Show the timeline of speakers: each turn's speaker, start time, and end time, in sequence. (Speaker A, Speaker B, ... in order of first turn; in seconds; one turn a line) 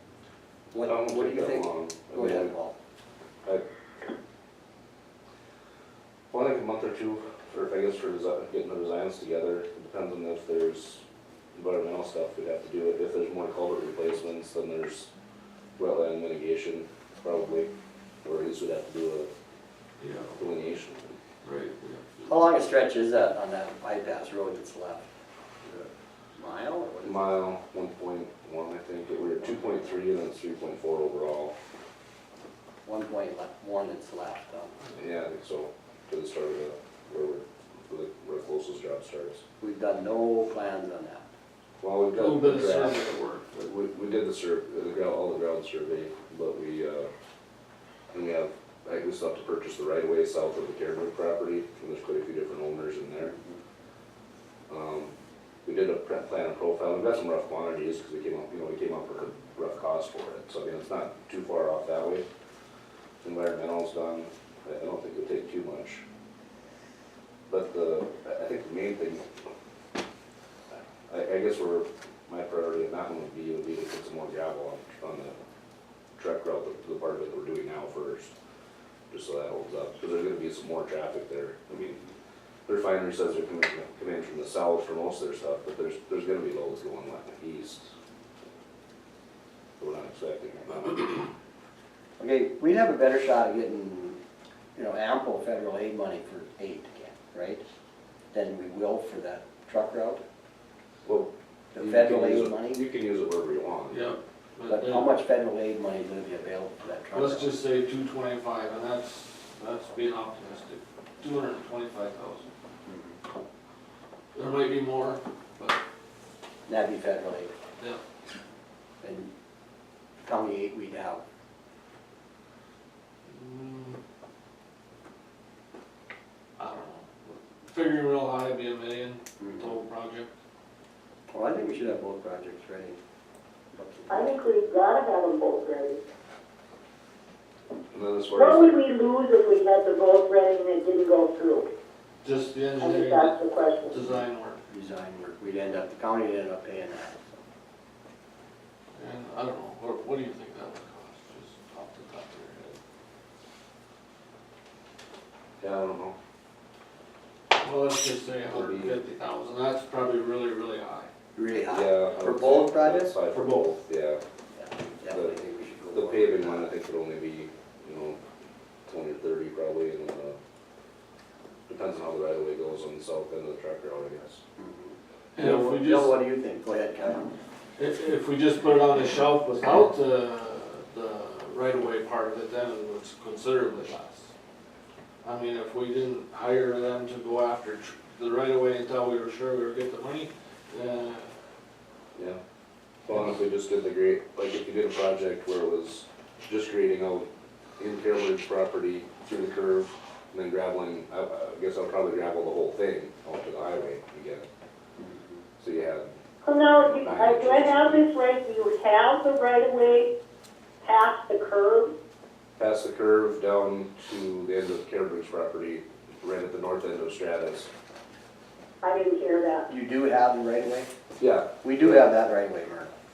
Speaker A: 0.7-2.7
Speaker B: 0.8-2.5
Speaker B: 6.3-11.0
Speaker B: 11.5-15.1
Speaker B: 15.8-17.7
Speaker B: 18.2-19.3
Speaker C: 20.0-20.4
Speaker B: 20.4-21.1
Speaker C: 21.4-22.3
Speaker A: 22.2-25.0
Speaker A: 25.7-27.2
Speaker B: 27.0-31.5
Speaker A: 32.8-34.8
Speaker B: 35.0-39.4
Speaker A: 39.6-41.2
Speaker B: 41.8-43.0
Speaker C: 42.1-43.7
Speaker B: 43.6-47.1
Speaker B: 48.1-53.3
Speaker A: 53.3-53.6
Speaker B: 54.7-55.1
Speaker B: 55.6-62.2
Speaker B: 63.2-66.0
Speaker B: 67.5-69.3
Speaker B: 71.1-75.3
Speaker B: 76.2-78.3
Speaker B: 79.1-82.0
Speaker B: 82.7-87.9
Speaker B: 89.8-91.3
Speaker A: 92.2-94.2
Speaker A: 94.8-97.6
Speaker A: 98.3-100.2
Speaker B: 101.0-104.0
Speaker A: 101.7-102.8
Speaker C: 103.9-105.1
Speaker A: 104.7-107.5
Speaker C: 107.1-112.5
Speaker A: 112.8-113.2
Speaker C: 114.3-115.8
Speaker A: 116.7-117.5
Speaker A: 119.0-119.3
Speaker A: 120.2-121.2
Speaker C: 123.3-124.0
Speaker C: 126.6-130.3
Speaker A: 129.4-129.7
Speaker A: 131.3-133.0
Speaker A: 133.7-134.3
Speaker D: 134.1-136.0
Speaker B: 137.9-138.8
Speaker D: 138.3-141.7
Speaker C: 142.2-144.6
Speaker D: 142.8-144.0
Speaker A: 144.1-147.2
Speaker C: 148.9-152.8
Speaker B: 155.6-156.1
Speaker C: 157.5-161.1
Speaker B: 158.5-159.0
Speaker A: 161.3-163.2
Speaker B: 161.7-164.2
Speaker C: 163.3-163.7
Speaker A: 164.5-166.7
Speaker B: 165.1-165.3
Speaker B: 165.9-168.2
Speaker B: 168.9-170.4
Speaker B: 171.7-174.4
Speaker A: 174.6-177.3
Speaker C: 175.3-176.1
Speaker C: 177.8-184.3
Speaker C: 185.2-191.3
Speaker B: 193.1-197.3
Speaker B: 197.8-204.4
Speaker A: 205.0-205.4
Speaker B: 205.6-206.1
Speaker D: 206.4-210.1
Speaker B: 206.8-208.0
Speaker D: 210.8-211.9
Speaker B: 212.6-217.7
Speaker D: 218.8-219.7
Speaker A: 219.7-220.9
Speaker B: 221.2-221.5
Speaker A: 221.6-222.9